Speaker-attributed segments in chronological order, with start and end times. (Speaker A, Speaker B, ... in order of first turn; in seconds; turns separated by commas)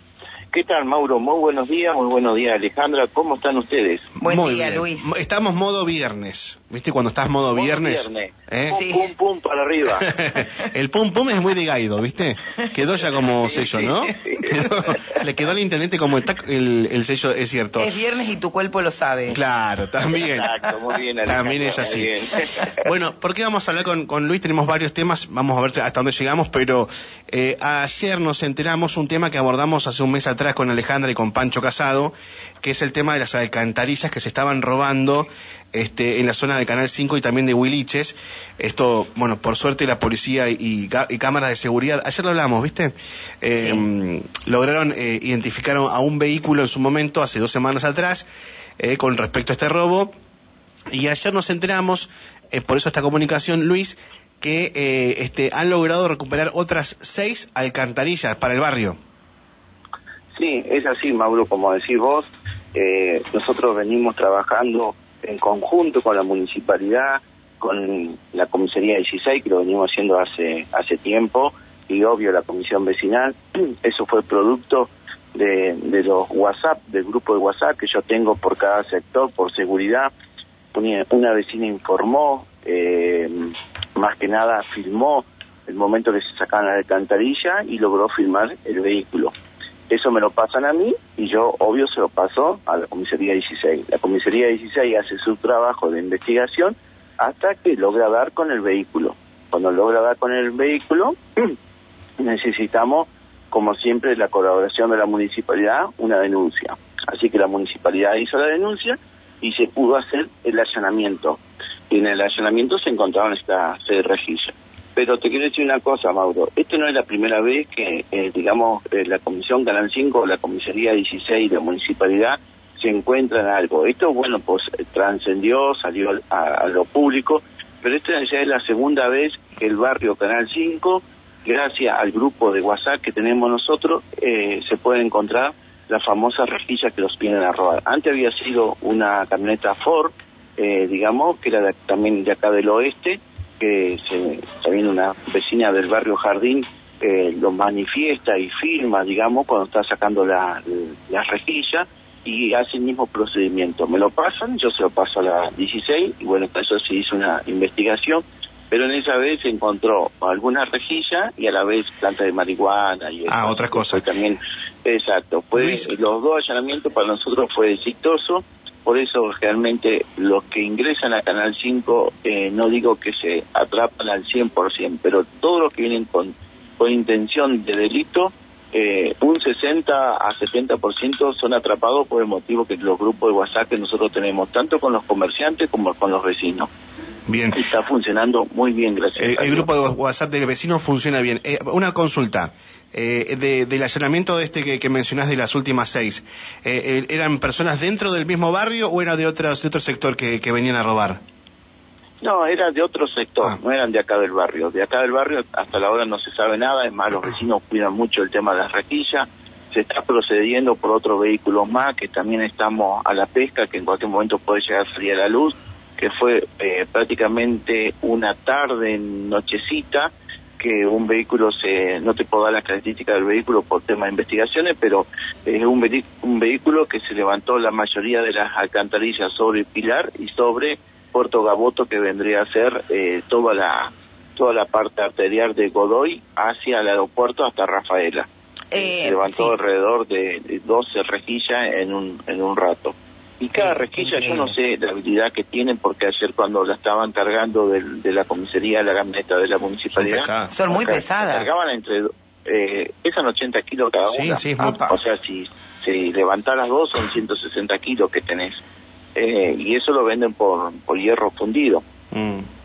Speaker A: 0.5-4.1, Speaker B: 4.2-5.1, Speaker C: 4.2-8.7, Speaker A: 7.5-10.1, Speaker B: 8.7-9.1, Speaker C: 10.1-17.9, Speaker A: 13.4-14.7, Speaker B: 17.8-19.4, Speaker C: 19.3-20.5, Speaker A: 20.1-22.7, Speaker C: 21.3-22.1, Speaker C: 22.8-48.3, Speaker B: 43.6-43.8, Speaker C: 48.8-50.1, Speaker C: 50.9-59.0, Speaker A: 60.3-80.1, Speaker A: 80.7-89.3, Speaker A: 89.9-101.5, Speaker A: 102.2-186.7, Speaker C: 163.3-164.0, Speaker C: 165.6-165.9, Speaker C: 187.3-187.6, Speaker A: 187.5-189.7, Speaker C: 189.2-201.2, Speaker A: 202.2-258.6, Speaker B: 238.7-239.5, Speaker B: 243.5-244.5, Speaker C: 249.9-250.5, Speaker B: 250.5-251.6, Speaker C: 254.1-254.8, Speaker B: 254.6-254.9, Speaker A: 259.1-261.8, Speaker C: 262.1-262.5